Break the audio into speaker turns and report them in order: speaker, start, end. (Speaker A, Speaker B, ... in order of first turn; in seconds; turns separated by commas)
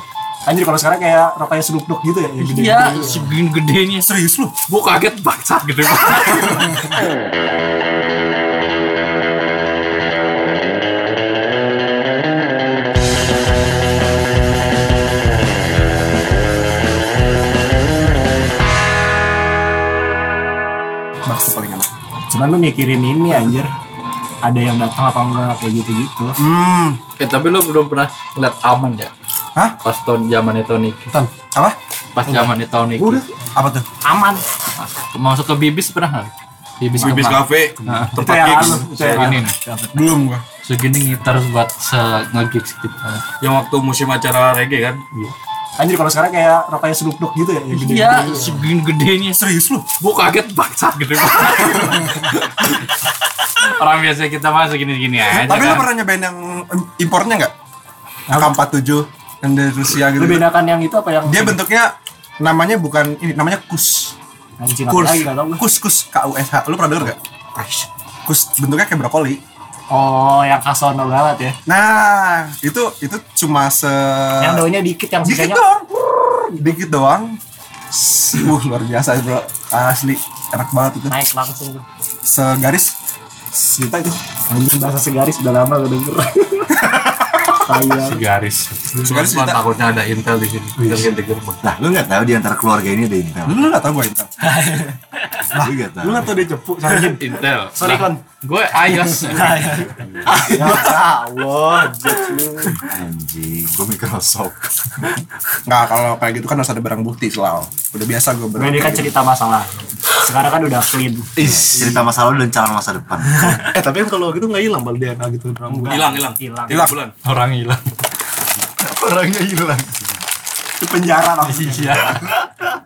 Speaker A: 0.5-3.3, Speaker B: 2.4-4.1, Speaker C: 4.0-4.5, Speaker B: 4.7-6.9, Speaker C: 6.1-6.6, Speaker C: 21.2-21.9, Speaker A: 22.3-23.7, Speaker A: 24.4-26.4, Speaker C: 26.4-27.0, Speaker B: 27.2-29.1, Speaker B: 29.8-31.0, Speaker B: 32.1-33.2, Speaker C: 33.5-33.8, Speaker A: 34.0-34.4, Speaker B: 34.8-39.5, Speaker D: 37.0-39.4, Speaker A: 38.0-40.1, Speaker C: 39.9-40.4, Speaker B: 40.6-43.2, Speaker D: 43.4-45.0, Speaker A: 45.8-48.7, Speaker B: 47.7-49.4, Speaker C: 49.3-49.9, Speaker B: 50.0-53.0, Speaker B: 53.6-55.9, Speaker C: 55.4-57.5, Speaker C: 58.3-60.5, Speaker A: 60.1-61.6, Speaker C: 61.2-64.2, Speaker A: 64.6-65.6, Speaker C: 64.9-67.2, Speaker C: 68.2-69.4, Speaker A: 69.9-71.5, Speaker C: 71.7-74.7, Speaker A: 74.4-75.6, Speaker C: 75.2-77.4, Speaker C: 77.9-81.1, Speaker A: 81.1-81.8, Speaker C: 82.2-83.0, Speaker C: 83.7-84.1, Speaker A: 84.0-86.9, Speaker C: 86.8-87.5, Speaker A: 87.6-88.2, Speaker B: 88.0-88.9, Speaker D: 89.0-91.6, Speaker C: 89.0-89.6, Speaker A: 90.8-91.1, Speaker E: 91.6-93.7, Speaker C: 93.4-94.3, Speaker A: 94.4-95.5, Speaker E: 95.5-96.4, Speaker C: 95.6-97.2, Speaker A: 96.7-97.2, Speaker B: 96.9-100.0, Speaker A: 97.8-98.2, Speaker A: 99.3-102.8, Speaker E: 100.2-100.9, Speaker C: 100.4-101.0, Speaker E: 102.9-105.2, Speaker C: 105.6-109.1, Speaker A: 108.5-111.3, Speaker E: 111.4-113.7, Speaker D: 111.5-111.9, Speaker A: 113.4-113.7, Speaker F: 113.8-115.8, Speaker A: 115.6-116.9, Speaker D: 115.8-117.1, Speaker C: 116.7-117.0, Speaker B: 117.2-117.8, Speaker E: 118.8-119.8, Speaker A: 120.8-122.3, Speaker B: 121.4-122.4